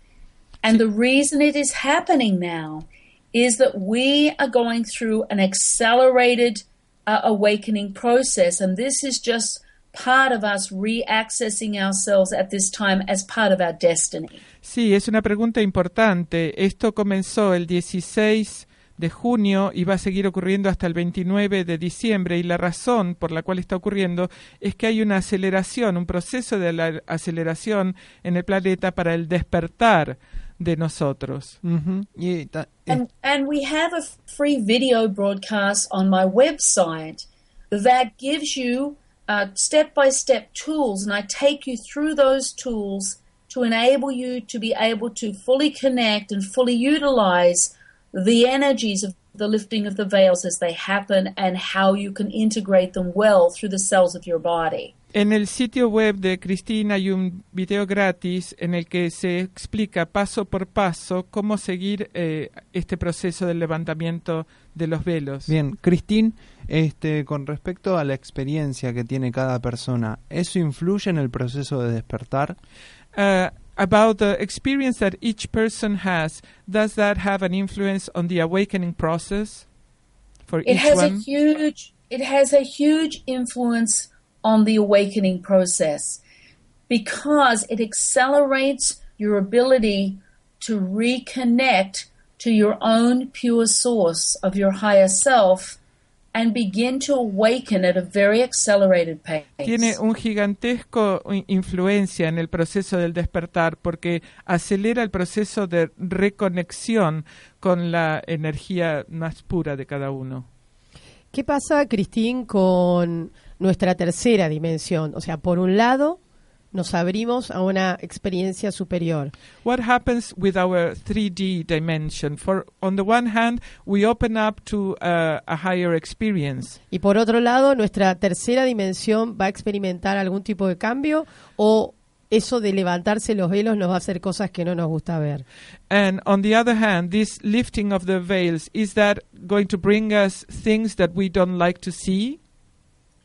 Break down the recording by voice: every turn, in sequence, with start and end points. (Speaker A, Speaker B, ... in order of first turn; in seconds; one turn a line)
Speaker A: 0.6-14.4
Speaker B: 14.6-31.6
Speaker C: 31.6-33.0
Speaker A: 32.9-54.9
Speaker B: 55.1-65.5
Speaker C: 65.5-72.6
Speaker B: 73.1-79.7
Speaker B: 80.5-81.2
Speaker A: 80.7-86.2
Speaker A: 86.9-95.8
Speaker A: 96.3-100.0
Speaker B: 99.6-110.5
Speaker D: 111.3-116.2
Speaker D: 116.7-119.3
Speaker B: 119.6-126.8
Speaker D: 126.9-135.4
Speaker B: 135.9-142.4